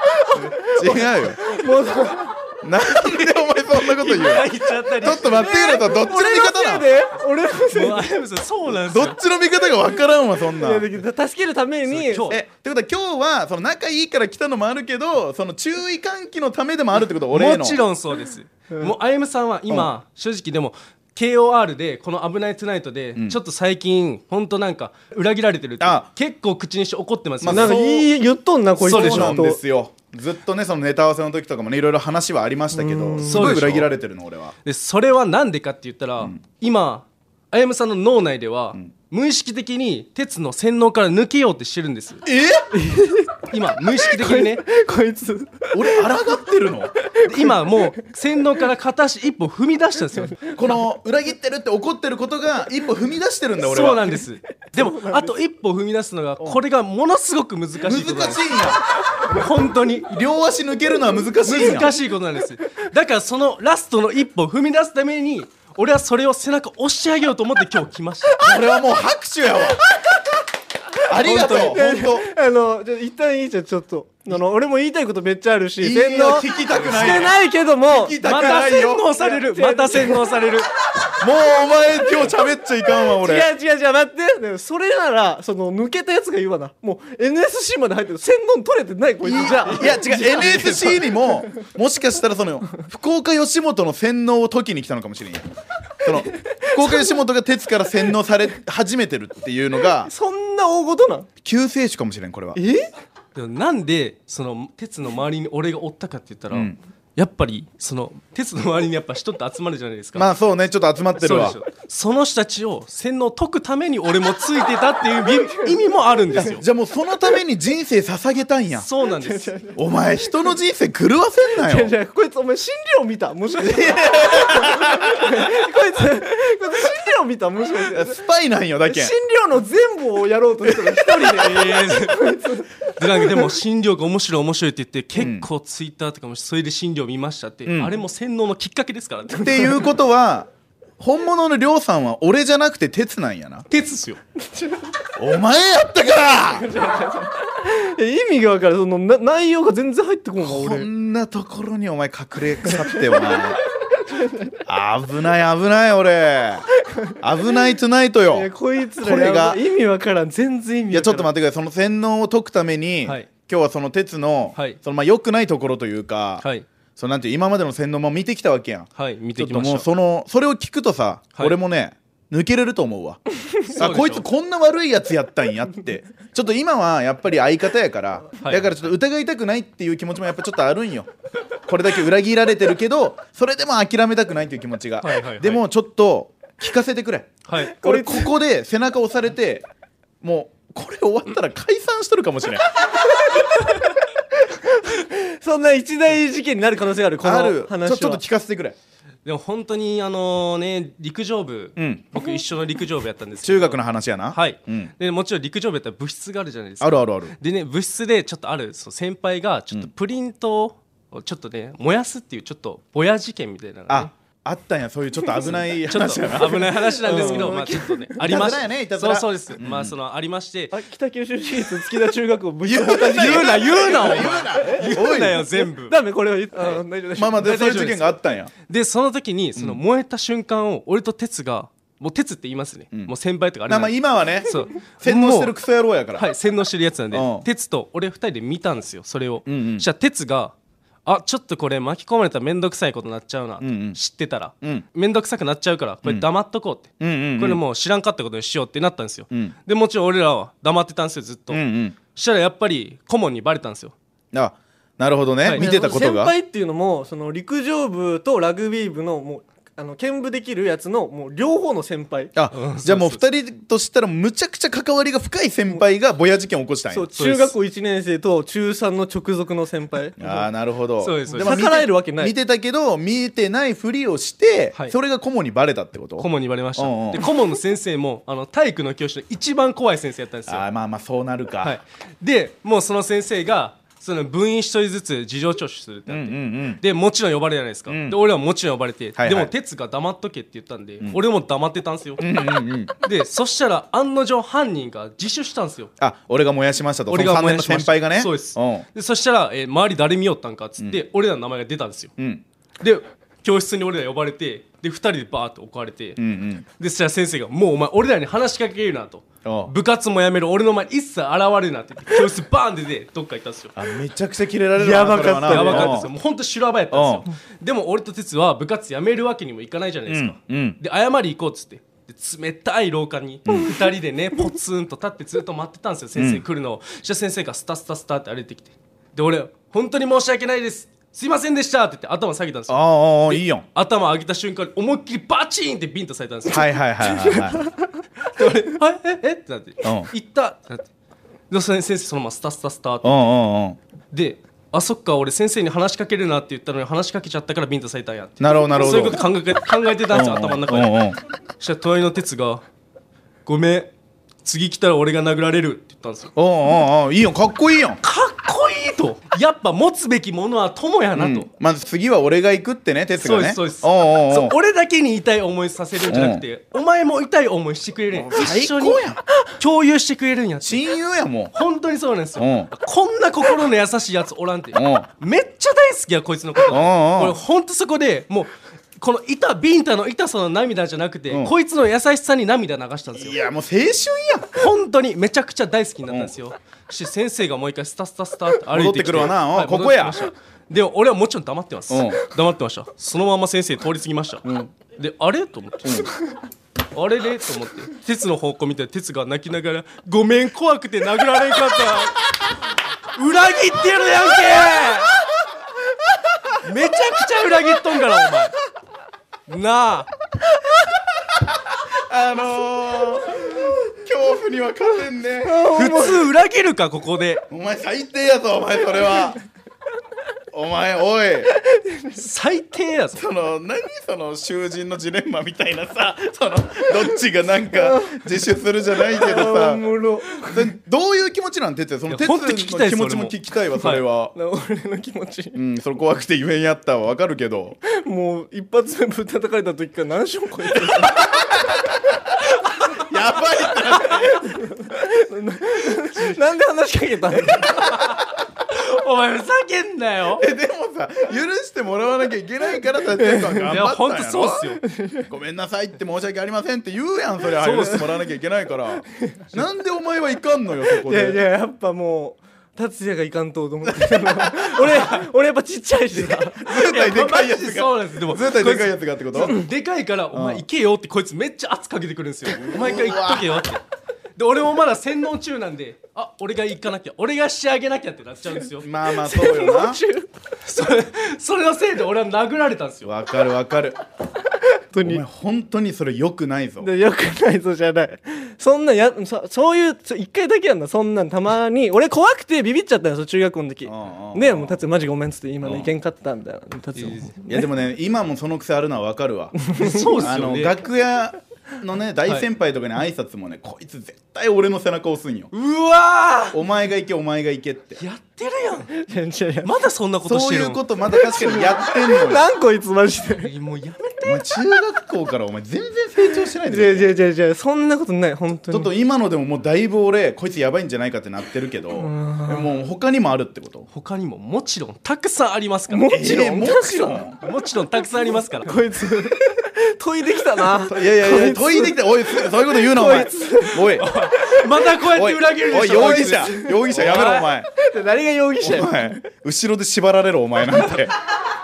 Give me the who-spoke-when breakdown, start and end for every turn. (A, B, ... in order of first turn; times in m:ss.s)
0:00.2-0:02.4 A
0:00.3-0:01.4 B
0:02.6-0:06.9 B
0:03.1-0:05.7 C
0:05.2-0:08.1 A
0:07.7-0:09.2 C
0:08.8-0:10.9 B
0:10.5-0:12.3 A
0:11.9-0:12.4 C
0:12.3-0:17.8 B
0:17.3-0:28.0 C
0:25.8-0:26.1 B
0:27.4-0:27.9 B
0:27.4-0:29.6 A
0:28.8-0:29.4 C
0:28.8-0:34.5 B
0:32.7-0:33.6 A
0:33.2-0:33.9 C
0:34.6-0:42.2 C
0:42.2-0:42.7 B
0:42.7-0:43.4 A
0:43.5-0:44.6 C
0:43.9-0:46.2 A
0:45.7-0:46.9 B
0:47.1-0:47.8 A
0:47.2-0:50.5 C
0:50.5-0:54.2 B
0:53.6-0:58.4 C
0:54.7-0:55.3 A
0:57.8-0:58.8 B
0:59.2-1:00.1 C
1:00.0-1:01.9 B
1:01.4-1:08.4 C
1:08.4-1:09.8 B
1:11.0-1:12.3 B
1:11.2-1:20.3 A
1:11.2-1:11.8 C
1:15.8-1:17.3 B
1:16.8-1:17.3 C
1:17.9-1:19.0 B
1:18.2-1:20.7 C
1:21.2-1:23.5 B
1:23.0-1:31.2 A
1:29.2-1:35.5 B
1:36.0-1:40.1 B
1:36.5-1:37.1 A
1:40.0-1:41.3 A
1:41.4-1:42.6 B
1:42.6-1:42.9 A
1:43.3-1:50.3 C
1:46.5-1:46.8 B
1:50.2-1:51.6 B
1:51.2-1:56.6 C
1:56.4-1:58.9 B
1:58.7-1:59.6 C
1:59.2-1:59.8 A
1:59.7-2:01.9 B
2:01.6-2:08.2 A
2:03.6-2:05.5 B
2:07.9-2:09.1 B
2:08.8-2:13.5 A
2:11.1-2:19.7 C
2:15.2-2:15.5 B
2:17.6-2:18.0 B
2:19.4-2:23.6 B
2:23.7-2:24.2 C
2:25.2-2:26.7 B
2:26.5-2:30.9 A
2:30.4-2:33.6 B
2:32.8-2:33.5 A
2:34.0-2:34.6 A
2:34.6-2:36.7 B
2:37.2-2:39.6 B
2:38.3-2:41.3 A
2:40.9-2:46.4 B
2:43.0-2:43.3 C
2:46.4-2:46.6 C
2:47.0-3:01.1 B
2:49.0-2:49.9 C
2:53.7-2:54.2 C
2:58.4-2:58.8 C
3:01.6-3:09.6 B
3:05.0-3:05.6 C
3:07.5-3:07.8 C
3:07.8-3:08.3 A
3:10.2-3:12.6 B
3:13.3-3:13.8 A
3:14.4-3:18.2 A
3:17.2-3:18.8 B
3:19.2-3:23.8 C
3:21.8-3:22.0 B
3:23.4-3:24.9 B
3:24.3-3:34.1 C
3:26.8-3:27.3 B
3:33.9-3:37.6 B
3:35.8-3:40.7 C
3:36.3-3:38.2 A
3:38.2-3:39.9 B
3:40.7-3:47.9 A
3:42.6-3:45.4 B
3:43.1-3:46.0 C
3:46.6-3:46.8 C
3:47.2-3:48.5 B
3:47.4-3:48.0 C
3:48.7-3:55.5 C
3:49.6-3:49.8 B
3:53.7-3:56.3 B
3:56.1-4:00.5 C
3:57.1-3:57.4 B
3:59.5-3:59.9 B
4:01.0-4:13.9 C
4:03.6-4:04.0 B
4:07.0-4:07.6 B
4:11.5-4:12.0 B
4:14.3-4:16.3 B
4:15.5-4:22.3 A
4:22.3-4:27.1 B
4:22.5-4:23.2 C
4:26.9-4:30.4 A
4:27.2-4:27.5 C
4:30.2-4:37.3 B
4:31.0-4:31.6 C
4:31.4-4:32.3 A
4:36.2-4:40.6 C
4:40.5-4:41.8 B
4:41.6-4:52.3 C
4:46.1-4:46.8 B
4:47.9-4:48.2 B
4:49.2-4:49.5 B
4:52.2-4:52.9 B
4:53.0-4:55.9 C
4:56.0-4:58.8 B
4:57.1-5:02.1 C
5:02.2-5:02.4 B
5:02.8-5:06.2 C
5:06.2-5:06.6 B
5:06.8-5:13.8 C
5:09.4-5:09.7 B
5:13.8-5:16.1 B
5:14.8-5:16.1 A
5:15.5-5:37.4 C
5:16.9-5:17.2 B
5:20.1-5:20.8 B
5:23.5-5:23.7 B
5:26.2-5:26.4 B
5:32.7-5:33.6 B
5:36.5-5:37.7 B
5:38.3-5:40.9 C
5:39.8-5:40.1 B
5:41.5-5:43.2 C
5:43.0-5:43.8 B
5:44.1-5:51.0 C
5:48.4-5:49.2 B
5:50.1-5:51.2 B
5:51.6-5:52.6 C
5:53.4-5:53.9 C
5:54.4-5:56.3 C
5:56.4-5:58.0 B
5:58.0-6:01.5 C
6:01.1-6:04.5 B
6:03.2-6:10.8 C
6:06.1-6:06.4 B
6:08.2-6:09.2 B
6:10.6-6:11.5 B
6:11.5-6:23.4 C
6:12.4-6:12.7 B
6:14.7-6:15.1 B
6:16.7-6:17.4 B
6:23.1-6:24.5 B
6:24.5-6:36.1 C
6:26.1-6:26.3 B
6:28.7-6:30.2 B
6:31.9-6:32.2 B
6:34.4-6:34.7 B
6:35.8-6:36.1 B
6:36.9-6:42.2 C
6:43.1-6:45.2 C
6:46.6-6:48.5 C
6:49.5-6:50.1 C
6:51.4-6:55.7 B
6:55.4-6:56.3 A
6:55.7-6:57.4 C
6:57.5-6:59.4 B
7:00.5-7:01.5 B
7:01.6-7:02.2 A
7:02.1-7:03.2 C
7:03.2-7:14.3 B
7:07.8-7:08.2 A
7:09.1-7:10.7 A
7:12.1-7:14.0 C
7:14.3-7:15.6 A
7:15.5-7:17.8 B
7:17.8-7:21.4 A
7:21.3-7:21.9 B
7:23.0-7:24.6 B
7:24.0-7:27.9 A
7:27.8-7:30.4 C
7:30.4-7:34.7 B
7:33.2-7:33.7 A
7:33.7-7:34.8 C
7:34.8-7:35.3 A
7:35.3-7:41.4 B
7:37.6-7:38.1 C
7:41.0-7:46.6 A
7:44.0-7:44.7 B
7:44.8-7:45.2 C
7:46.1-7:49.6 B
7:46.7-7:53.8 C
7:50.3-7:50.6 B
7:52.6-7:53.6 B
7:54.4-7:58.9 C
7:58.8-8:00.0 B
7:59.2-8:00.3 A
8:00.6-8:03.1 C
8:03.0-8:04.0 B
8:04.7-8:05.2 A
8:05.0-8:06.9 B
8:06.8-8:17.6 A
8:13.8-8:14.8 B
8:15.6-8:15.9 B
8:17.0-8:17.4 C
8:17.5-8:25.5 B
8:19.6-8:20.1 A
8:19.8-8:20.8 C
8:25.5-8:26.6 C
8:26.5-8:28.0 B
8:28.0-8:28.9 C
8:29.0-8:29.7 A
8:29.6-8:30.8 C
8:30.2-8:32.4 B
8:31.1-8:33.5 A
8:33.4-8:34.4 C
8:34.2-8:37.1 B
8:36.6-8:38.9 A
8:38.7-8:43.9 B
8:41.9-8:42.7 A
8:43.9-8:46.2 C
8:45.9-8:47.3 A
8:46.1-8:47.4 B
8:47.4-8:48.8 C
8:48.6-8:54.7 A
8:50.8-8:54.1 B
8:54.0-8:57.5 C
8:55.1-8:57.7 B
8:56.2-8:56.8 A
8:57.7-8:59.2 A
8:58.6-9:01.1 B